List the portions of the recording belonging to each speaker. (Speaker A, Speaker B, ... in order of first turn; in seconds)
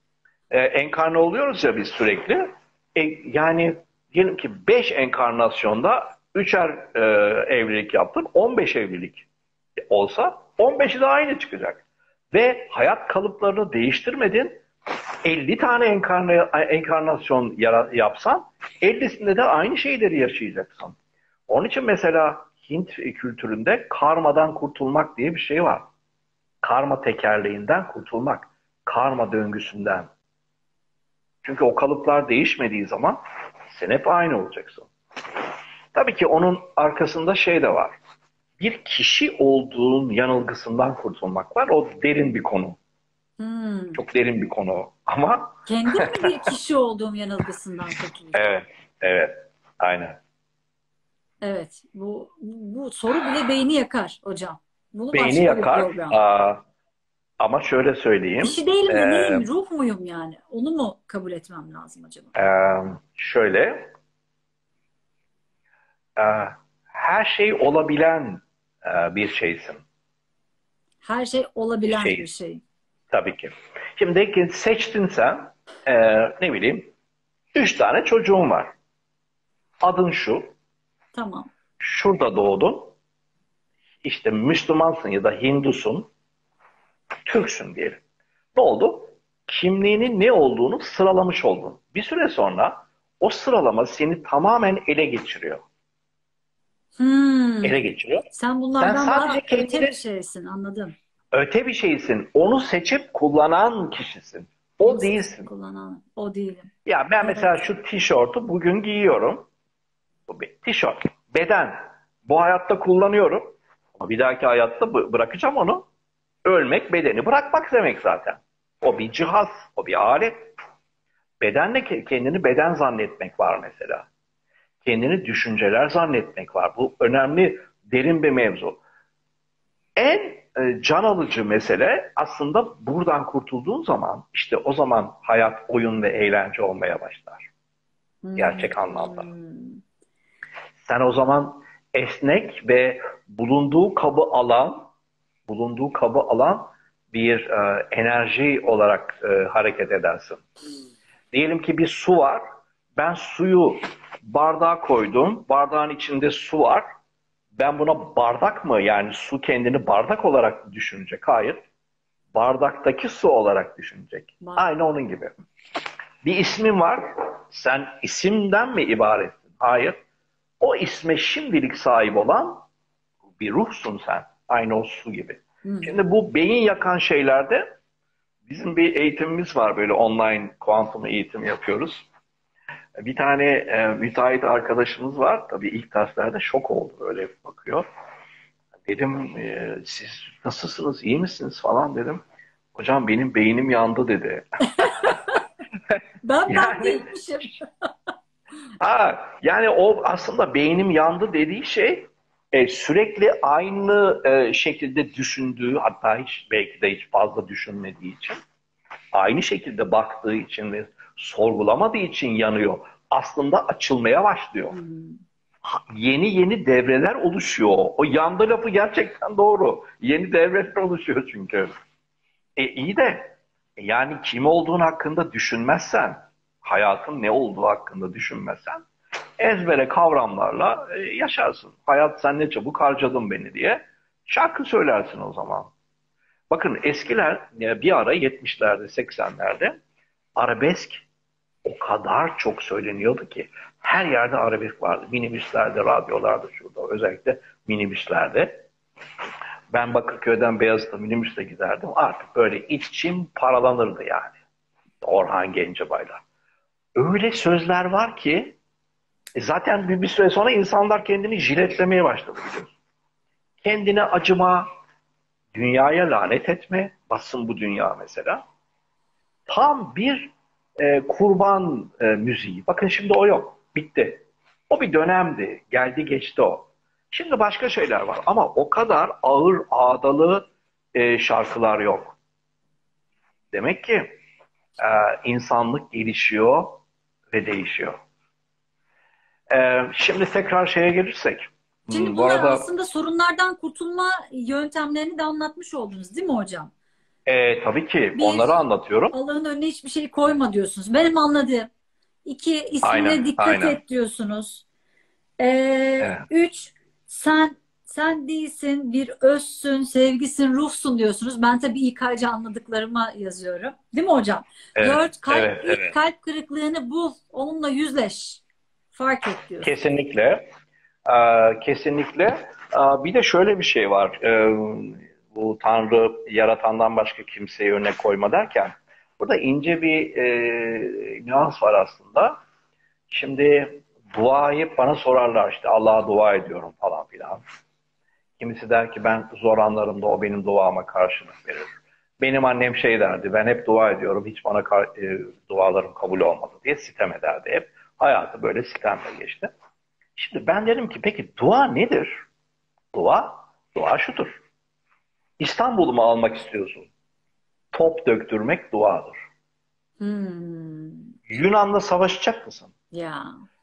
Speaker A: 0.5-9.2, 9.9-14.6, 15.2-21.0, 21.5-25.9, 26.6-30.1, 31.4-34.9, 35.9-38.0, 38.6-42.8, 44.0-46.5, 48.3-50.2, 55.1-56.6, 57.4-59.5, 62.4-63.9, 66.2-69.8, 71.9-72.2, 73.1-76.9, 77.5-78.7, 79.8-80.5, 81.8-83.0, 84.0-86.1, 87.3-88.0, 88.5-95.6, 97.6-98.3, 98.8-99.9, 101.3-105.5, 106.9-109.5, 110.3-115.9, 116.5-120.5, 121.4-124.1, 124.8-128.8, 130.0-137.5, 138.4-139.3, 140.8-144.9, 145.5-150.4, 151.3-152.4, 153.0-156.8, 157.6-161.6, 162.3-165.3, 166.2-170.0, 170.6-172.7, 173.4-177.7, 178.5-182.1, 183.0-187.8, 188.9-192.2, 192.8-195.2, 196.5-197.1, 198.8-208.4, 209.1-214.8, 215.6-221.7, 222.6-228.9, 229.4-235.7, 236.5-239.8, 240.4-241.0, 241.7-248.7, 249.7-254.4, 255.0-256.2, 257.0-258.6, 259.4-262.8, 263.6-264.7, 265.5-268.4, 269.5-282.2, 283.5-284.2, 284.8-288.0, 289.5-292.7, 297.3-299.1, 302.8-303.8, 306.0-306.2, 314.8-315.9, 319.6-320.4, 321.1-332.4, 333.1-337.4, 338.4-349.5, 350.2-352.2, 352.9-354.4, 355.4-356.9, 357.7-359.2, 361.3-362.7
Speaker B: 43.4-44.0, 45.7-48.4, 51.4-56.2, 58.4-62.3, 71.0-72.6, 81.1-81.5, 97.0-97.8, 98.3-100.9, 104.8-106.7, 107.2-107.7, 138.2-139.8, 164.4-164.7, 175.7-175.9, 194.8-195.4, 196.2-197.9, 214.7-215.2, 291.9-296.7, 298.2-298.6, 299.1-301.7, 302.2-304.6, 305.4-318.4, 318.9-319.7, 360.0-361.1, 362.9-363.4